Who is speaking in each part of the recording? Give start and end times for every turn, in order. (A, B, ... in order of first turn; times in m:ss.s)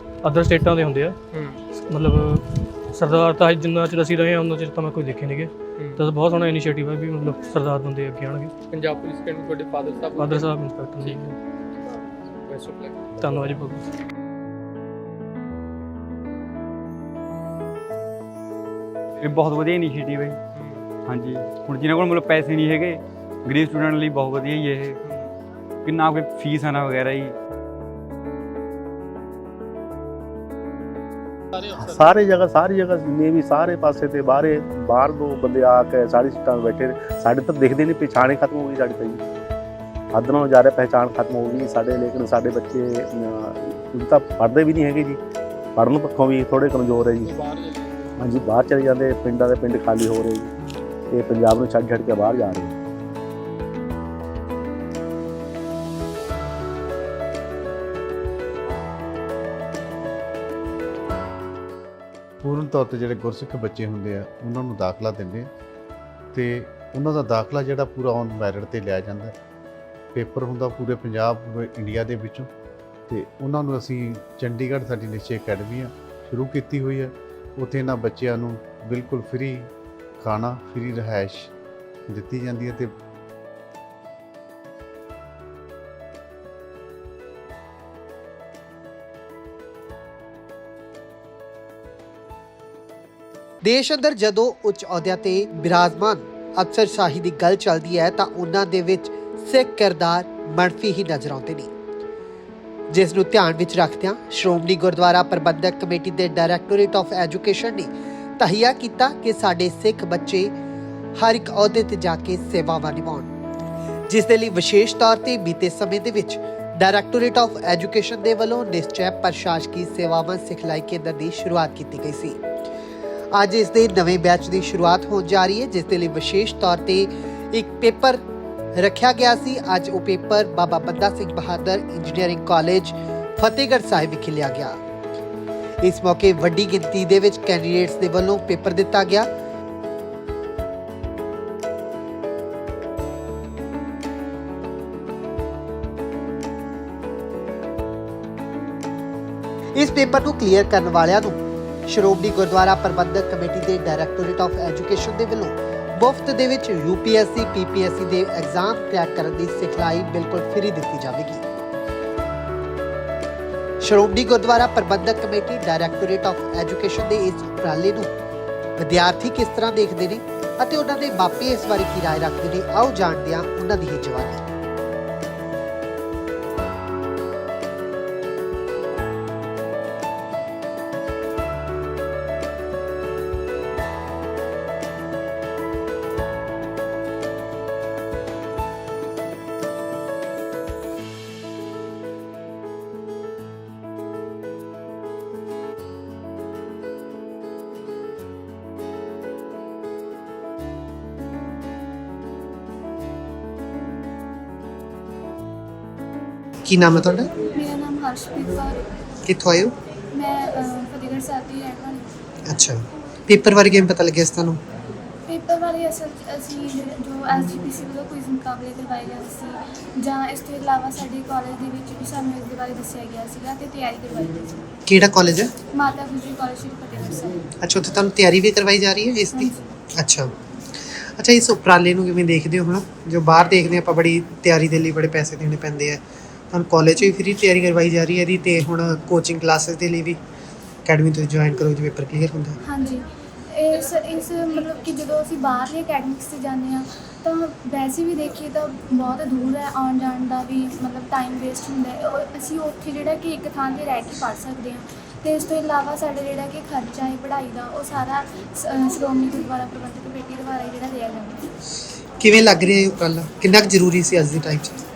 0:00.2-0:01.1 A
0:01.3-0:01.6 B
0:01.9-0:08.5 A
0:05.8-0:06.1 B
0:08.7-0:11.2 B
0:10.2-0:11.3 A
0:12.4-0:13.5 B
0:13.2-0:13.9 A
0:19.2-0:20.4 C
0:20.5-0:20.9 B
0:21.0-0:25.0 C
0:25.0-0:25.4 B
0:25.8-0:27.3 C
0:31.5-0:32.1 B
0:31.8-0:39.2 D
0:40.1-0:45.2 D
0:45.8-0:47.3 D
0:47.2-0:48.2 B
0:48.2-0:50.5 D
0:50.6-0:50.9 B
0:51.1-0:52.7 D
1:02.4-1:05.5 E
1:06.3-1:09.3 E
1:10.1-1:12.5 E
1:13.1-1:21.5 E
1:22.1-1:22.9 E
1:33.6-1:41.7 F
1:42.9-1:50.5 F
1:51.2-1:53.3 F
1:54.1-2:02.4 F
2:03.3-2:08.2 F
2:08.8-2:14.8 F
2:15.8-2:19.3 F
2:29.7-2:41.4 F
2:43.8-2:48.1 F
2:48.8-2:54.4 F
3:26.6-3:27.3 F
3:27.5-3:28.8 G
3:29.2-3:29.7 F
3:30.2-3:32.0 G
3:32.4-3:34.6 F
3:35.3-3:44.4 G
3:44.8-3:45.5 F
3:45.7-3:47.4 G
3:47.6-3:50.3 F
3:51.2-3:56.0 F
3:56.5-4:00.2 F
4:00.8-4:02.6 F
4:02.6-4:21.4 G
4:22.2-4:24.8 F